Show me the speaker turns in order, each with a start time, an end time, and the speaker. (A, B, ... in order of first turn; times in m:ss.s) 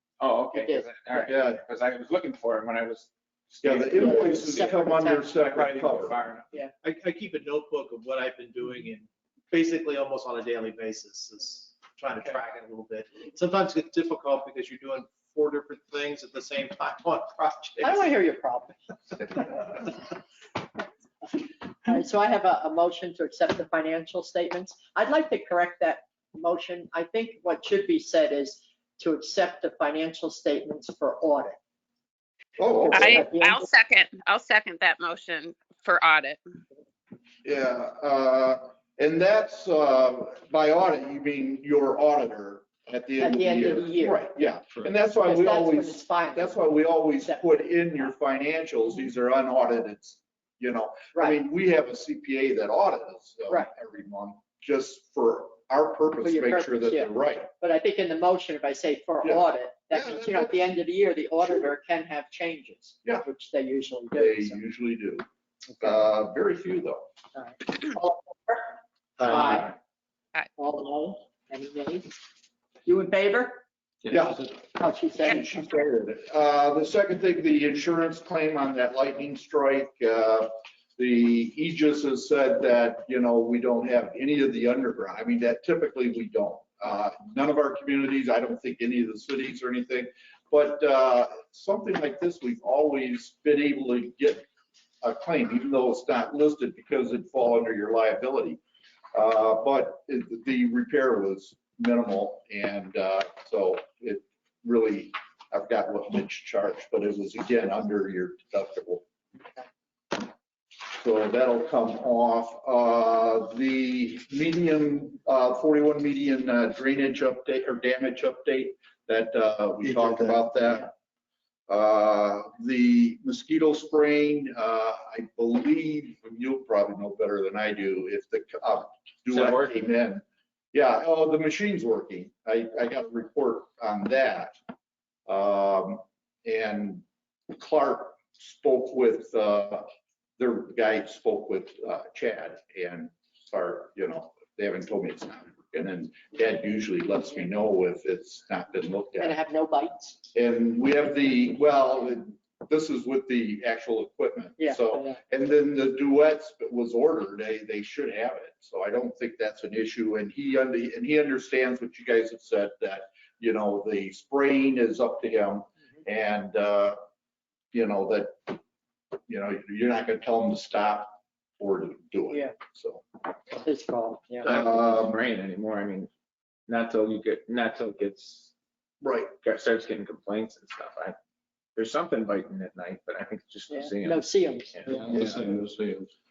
0:00.2-0:04.7 A
0:00.5-0:01.3 B
0:01.2-0:01.6 C
0:03.6-0:06.2 C
0:04.0-0:05.3 B
0:05.4-0:06.5 A
0:06.8-0:18.0 D
0:17.8-0:18.8 B
0:19.5-0:19.8 B
0:21.3-0:31.6 B
0:32.6-0:33.3 C
0:32.8-0:33.7 B
0:32.9-0:36.4 E
0:37.4-0:57.5 C
0:43.2-0:44.3 B
0:45.2-0:48.1 B
0:56.2-1:04.6 B
0:59.2-1:00.7 C
1:04.1-1:05.2 C
1:05.8-1:07.0 C
1:07.4-1:09.8 B
1:10.6-1:12.2 B
1:12.8-1:13.6 B
1:14.1-1:34.5 C
1:14.8-1:15.4 B
1:35.0-1:38.6 C
1:39.1-1:49.0 C
1:50.9-2:00.9 C
2:01.7-2:14.6 C
2:09.3-2:09.8 A
2:15.3-2:19.9 C
2:20.4-2:29.4 C
2:29.2-2:30.2 B
2:30.3-2:47.0 C
2:34.6-2:35.2 B
2:47.7-2:48.6 C
2:49.3-2:53.0 C
2:53.6-2:54.5 B
2:54.4-2:56.1 A
2:54.4-2:55.2 C
2:56.7-2:58.5 A
2:59.0-2:59.3 C
2:59.4-3:01.2 A
3:01.8-3:05.6 A
3:03.7-3:04.8 B
3:05.1-3:05.7 C